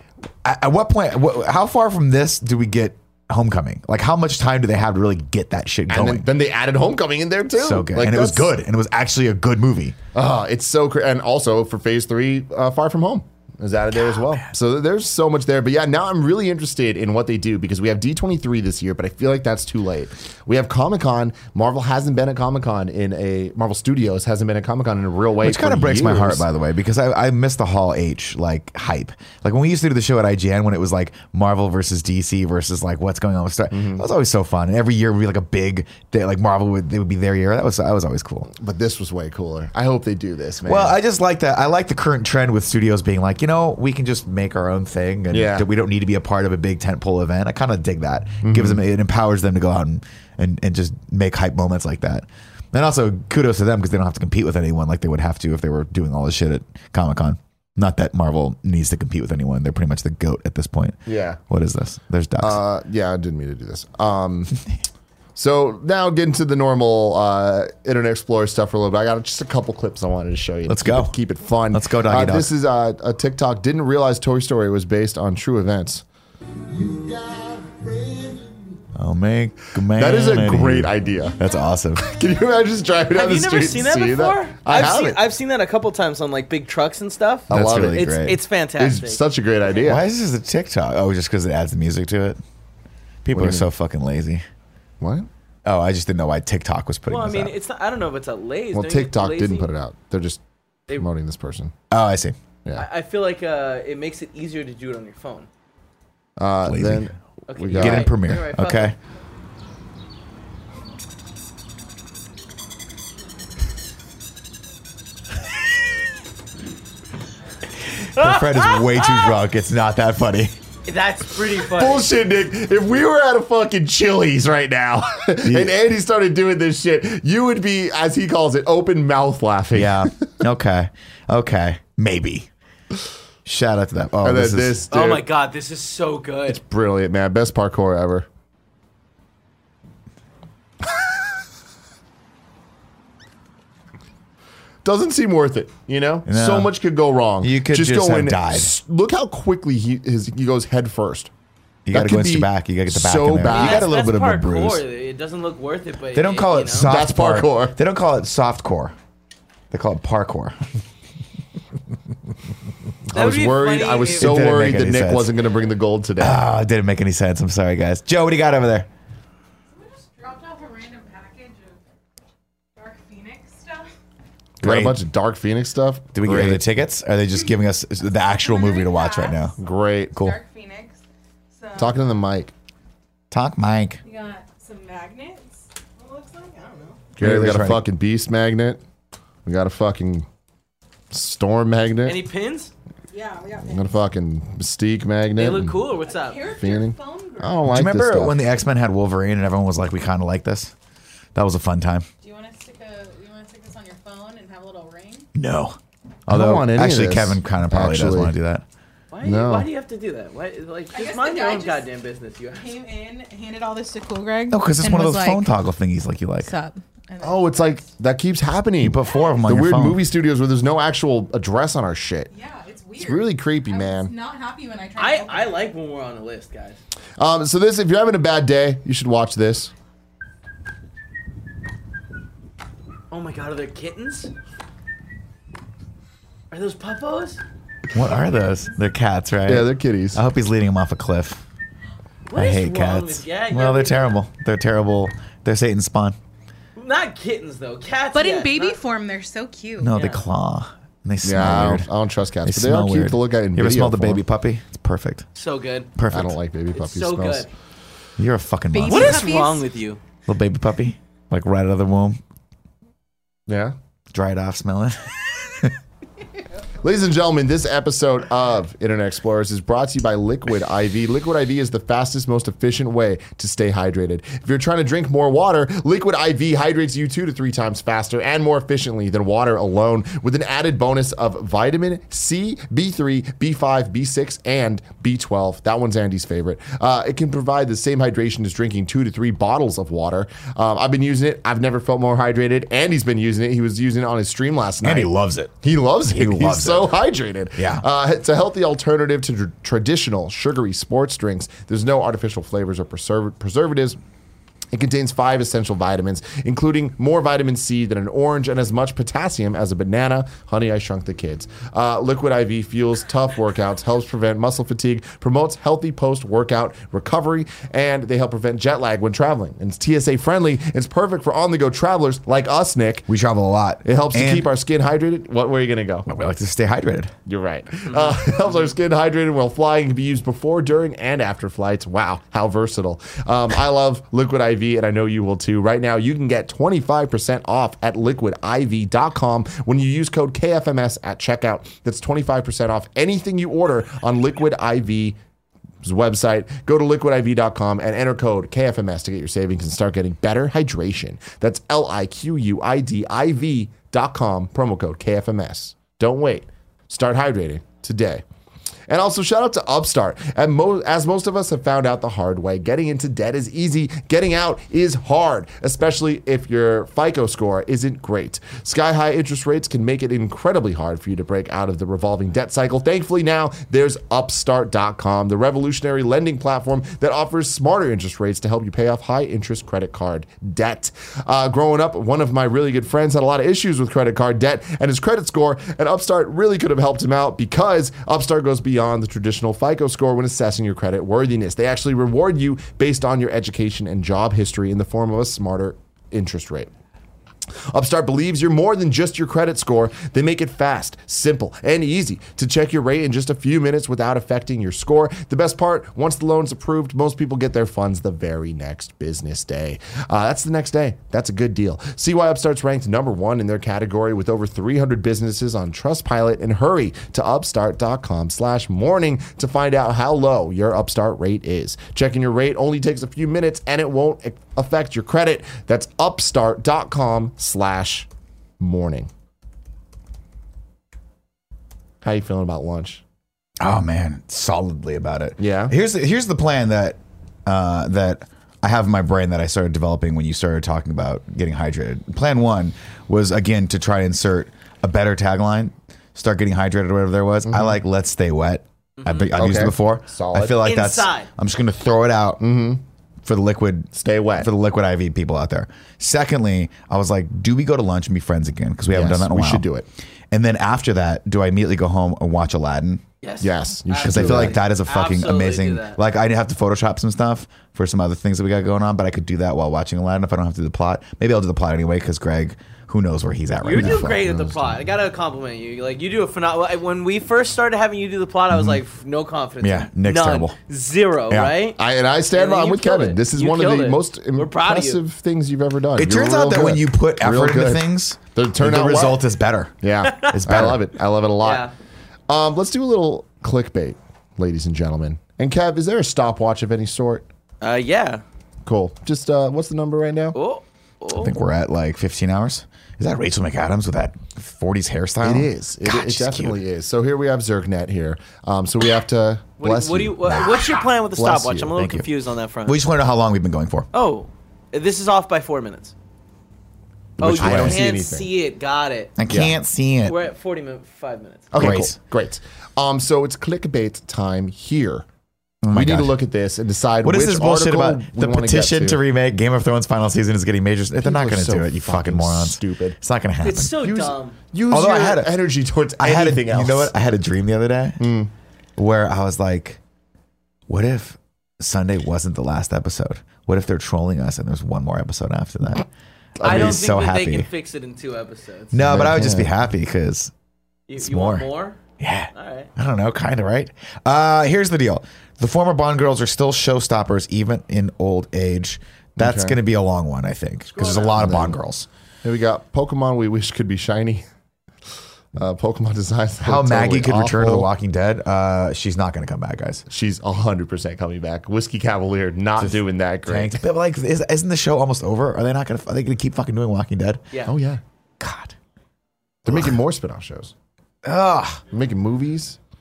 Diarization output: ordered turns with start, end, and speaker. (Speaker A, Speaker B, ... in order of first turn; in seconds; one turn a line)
Speaker A: 0.4-6.3
Speaker B: 5.9-8.5
Speaker A: 7.5-10.0
Speaker B: 10.1-26.4
Speaker A: 13.9-14.5
Speaker A: 25.4-38.5
Speaker B: 33.7-34.0
Speaker B: 38.5-41.0
Speaker A: 40.6-62.6
Speaker B: 45.3-45.7
Speaker B: 48.4-48.8
Speaker B: 61.1-61.4
Speaker B: 62.4-64.5
Speaker B: 65.3-76.0
Speaker A: 70.7-71.2
Speaker A: 71.7-72.5
Speaker B: 76.8-78.5
Speaker A: 79.0-82.1
Speaker B: 79.9-81.3
Speaker B: 82.0-85.2
Speaker C: 83.1-89.2
Speaker B: 87.5-88.2
Speaker A: 87.5-88.4
Speaker B: 88.8-90.0
Speaker A: 89.8-92.4
Speaker A: 93.2-94.5
Speaker B: 93.3-93.7
Speaker B: 95.0-95.3
Speaker A: 95.7-97.5
Speaker C: 97.1-99.7
Speaker B: 98.7-101.7
Speaker A: 101.9-102.3
Speaker C: 102.8-105.5
Speaker B: 106.4-108.1
Speaker A: 106.6-107.1
Speaker C: 107.5-109.0
Speaker A: 107.7-109.0
Speaker A: 118.1-120.5
Speaker C: 118.2-119.3
Speaker C: 120.8-122.1
Speaker B: 121.7-130.3
Speaker A: 125.4-125.8
Speaker A: 129.7-132.5
Speaker A: 133.5-134.8
Speaker B: 134.2-135.2
Speaker C: 134.9-136.6
Speaker B: 136.5-138.3
Speaker B: 144.8-151.3
Speaker A: 146.3-146.8
Speaker A: 147.4-148.7
Speaker A: 151.9-154.8
Speaker B: 151.9-153.9
Speaker C: 153.5-156.9
Speaker A: 156.1-158.9
Speaker B: 156.8-157.8
Speaker A: 159.7-160.6
Speaker B: 163.1-166.4
Speaker C: 163.1-164.5
Speaker A: 164.2-165.3
Speaker A: 166.2-168.9
Speaker D: 169.7-171.8
Speaker D: 172.8-173.9
Speaker A: 174.6-175.0
Speaker B: 174.6-176.7
Speaker A: 176.1-179.6
Speaker D: 178.2-179.6
Speaker B: 179.6-180.2
Speaker D: 180.1-182.0
Speaker B: 181.8-182.5
Speaker A: 183.3-184.0
Speaker D: 184.0-187.1
Speaker B: 187.2-188.8
Speaker A: 187.2-187.8
Speaker B: 189.4-190.3
Speaker B: 191.1-192.2
Speaker C: 192.1-192.7
Speaker D: 193.1-194.0
Speaker B: 193.6-195.9
Speaker C: 195.4-196.5
Speaker D: 196.0-197.7
Speaker B: 196.6-198.4
Speaker A: 197.7-200.7
Speaker A: 201.3-202.1
Speaker D: 202.2-205.3
Speaker A: 205.3-208.6
Speaker B: 206.3-208.3
Speaker C: 209.1-212.7
Speaker B: 209.2-209.7
Speaker D: 210.9-211.9
Speaker D: 212.5-215.5
Speaker A: 214.5-216.5
Speaker D: 216.4-217.9
Speaker B: 217.2-222.3
Speaker A: 218.8-220.0
Speaker D: 219.0-219.4
Speaker D: 222.3-225.7
Speaker B: 223.0-224.1
Speaker C: 225.0-226.8
Speaker B: 227.2-229.7
Speaker C: 233.1-234.3
Speaker C: 236.5-237.4
Speaker A: 237.9-241.4
Speaker B: 239.5-240.2
Speaker C: 242.3-244.2
Speaker A: 242.3-246.2
Speaker C: 246.8-248.8
Speaker D: 248.1-250.0
Speaker A: 249.8-251.9
Speaker C: 249.9-250.2
Speaker B: 251.2-254.2
Speaker A: 252.4-255.3
Speaker C: 255.3-255.9
Speaker A: 256.0-256.4
Speaker B: 256.1-257.5
Speaker C: 256.7-257.5
Speaker A: 258.2-259.3
Speaker D: 258.7-259.7
Speaker C: 258.9-260.0
Speaker A: 260.3-262.2
Speaker B: 263.5-263.8
Speaker A: 264.1-265.7
Speaker B: 266.8-295.1
Speaker A: 294.8-295.6
Speaker B: 295.6-304.0
Speaker A: 296.1-297.0
Speaker A: 297.6-297.8
Speaker B: 304.7-323.1
Speaker A: 323.1-324.5
Speaker B: 323.9-326.1
Speaker A: 326.1-327.1
Speaker B: 327.3-345.2
Speaker C: 327.9-328.2
Speaker B: 345.8-358.2
Speaker B: 358.9-396.7
Speaker B: 397.7-428.1
Speaker B: 428.6-429.1
Speaker B: 432.0-433.0
Speaker A: 433.6-452.4
Speaker B: 435.4-435.7
Speaker B: 447.5-447.8
Speaker C: 449.0-449.4
Speaker B: 449.3-450.7
Speaker C: 450.6-451.3
Speaker B: 452.4-452.8
Speaker A: 453.2-459.7
Speaker B: 453.9-454.5
Speaker B: 458.9-459.9
Speaker A: 460.3-463.0
Speaker C: 463.2-466.0
Speaker B: 463.4-464.6
Speaker A: 464.0-474.2
Speaker C: 473.6-481.8
Speaker B: 473.7-474.7
Speaker A: 478.5-478.8
Speaker A: 479.6-480.6
Speaker A: 481.3-481.6
Speaker B: 481.8-489.2
Speaker C: 482.3-485.0
Speaker A: 486.0-490.8
Speaker B: 489.8-491.7
Speaker C: 491.4-491.7
Speaker B: 492.3-497.3
Speaker C: 497.6-498.2
Speaker B: 498.6-500.4
Speaker C: 500.4-501.3
Speaker A: 501.1-506.6
Speaker B: 505.2-511.8
Speaker C: 509.6-512.8
Speaker A: 511.8-512.1
Speaker A: 512.7-513.9
Speaker C: 513.9-515.9
Speaker B: 517.2-518.3
Speaker C: 517.2-519.2
Speaker A: 517.2-517.8
Speaker A: 519.2-520.2
Speaker B: 519.3-519.5
Speaker C: 520.0-521.5
Speaker B: 521.5-525.1
Speaker A: 521.5-522.0
Speaker A: 525.6-526.2
Speaker B: 525.7-529.0
Speaker A: 527.0-533.8
Speaker B: 531.0-533.0
Speaker C: 533.4-534.4
Speaker B: 533.8-536.9
Speaker A: 534.7-535.4
Speaker A: 536.0-538.1
Speaker B: 538.0-538.3
Speaker A: 538.8-539.8
Speaker A: 540.7-545.9
Speaker B: 546.4-546.8
Speaker C: 546.4-549.1
Speaker A: 546.4-547.5
Speaker A: 548.7-550.3
Speaker B: 548.8-549.5
Speaker C: 550.9-551.8
Speaker A: 551.0-551.5
Speaker A: 552.0-561.9
Speaker C: 552.3-552.7
Speaker B: 559.2-559.6
Speaker C: 560.7-561.2
Speaker B: 561.2-561.6
Speaker B: 562.2-564.2
Speaker B: 565.4-567.7
Speaker A: 566.4-569.9
Speaker B: 569.9-573.6
Speaker A: 572.6-577.2
Speaker B: 577.5-577.8
Speaker A: 578.2-578.6
Speaker B: 579.5-580.5
Speaker A: 579.5-579.8
Speaker A: 581.0-581.6
Speaker B: 581.7-582.6